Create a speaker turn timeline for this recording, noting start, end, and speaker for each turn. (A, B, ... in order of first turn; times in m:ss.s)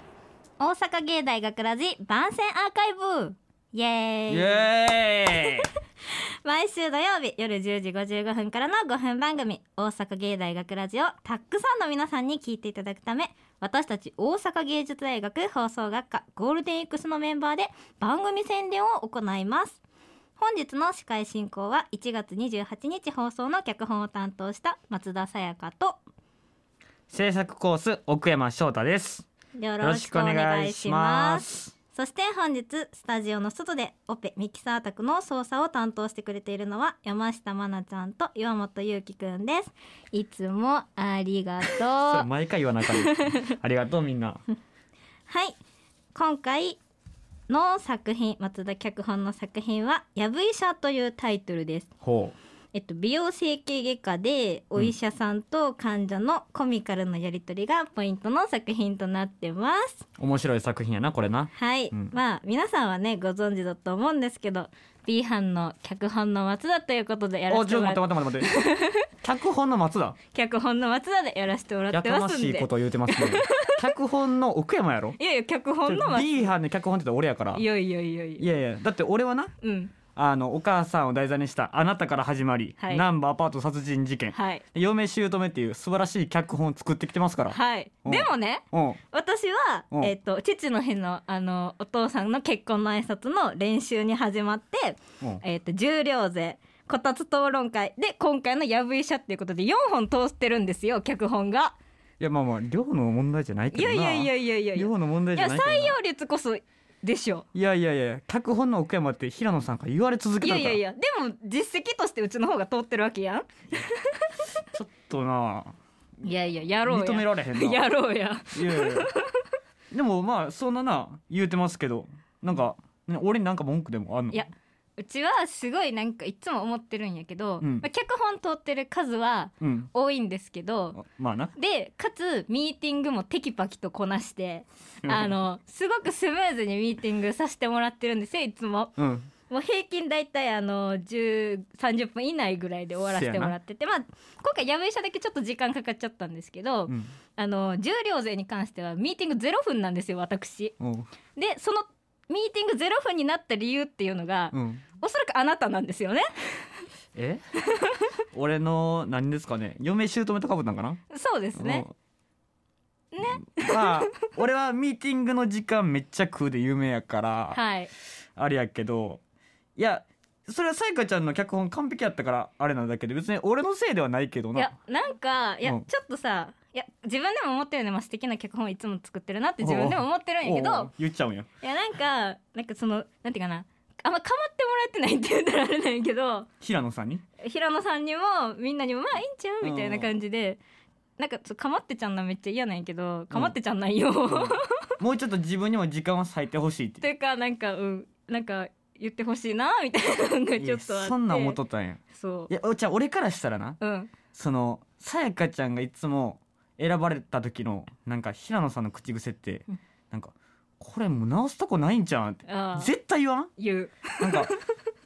0:00.6-0:04.7 A
0:04.3-0:05.6 B
0:06.1-0:19.8 A
0:20.4-0:26.0 A
0:27.1-0:29.3 B
0:29.5-0:42.2 A
0:29.8-0:31.7 B
0:42.0-0:44.4 B
0:45.3-0:45.6 A
0:46.1-0:46.8 A
0:47.5-0:51.9 A
0:52.0-0:52.3 B
0:52.7-1:00.0 A
1:00.2-1:02.2 B
1:01.5-1:09.0 A
1:07.5-1:08.6 B
1:09.2-1:10.2 B
1:10.3-1:13.7 A
1:11.9-1:15.2 B
1:15.2-1:16.5 A
1:15.8-1:17.6 B
1:17.5-1:18.4 A
1:18.4-1:19.5 B
1:19.6-1:19.9 A
1:20.1-1:29.0 B
1:22.8-1:23.0 A
1:24.3-1:24.6 A
1:27.5-1:41.8 A
1:42.2-1:46.0 B
1:43.7-1:47.4 A
1:47.5-1:50.8 B
1:50.4-1:54.4 A
1:54.7-1:55.7 B
1:56.2-1:59.3 A
1:56.8-1:57.9 B
1:58.5-1:59.1 B
1:59.9-2:04.4 B
2:04.3-2:11.0 A
2:07.6-2:07.9 B
2:09.6-2:09.9 B
2:10.9-2:11.5 B
2:11.6-2:19.0 A
2:15.0-2:15.3 B
2:19.0-2:19.3 B
2:19.5-2:30.7 A
2:23.1-2:23.6 B
2:30.8-2:31.1 B
2:31.4-2:36.7 A
2:34.5-2:34.8 B
2:37.1-2:37.4 B
2:38.3-2:41.0 B
2:41.1-2:41.8 A
2:41.5-2:41.9 B
2:43.1-2:44.0 A
2:43.2-2:47.6 B
2:47.5-2:47.9 A
2:48.4-2:49.2 B
2:49.8-2:54.7 B
2:54.6-3:00.9 A
2:59.6-3:01.5 B
3:01.6-3:06.5 A
3:06.6-3:07.2 B
3:07.4-3:10.6 A
3:09.6-3:10.1 B
3:11.2-3:14.9 A
3:13.3-3:13.6 B
3:14.3-3:17.0 B
3:17.0-3:21.6 A
3:20.6-3:23.8 B
3:22.1-3:22.5 A
3:23.8-3:24.1 A
3:24.3-3:33.5 B
3:32.4-3:32.9 A
3:33.6-3:34.5 A
3:34.2-3:34.5 B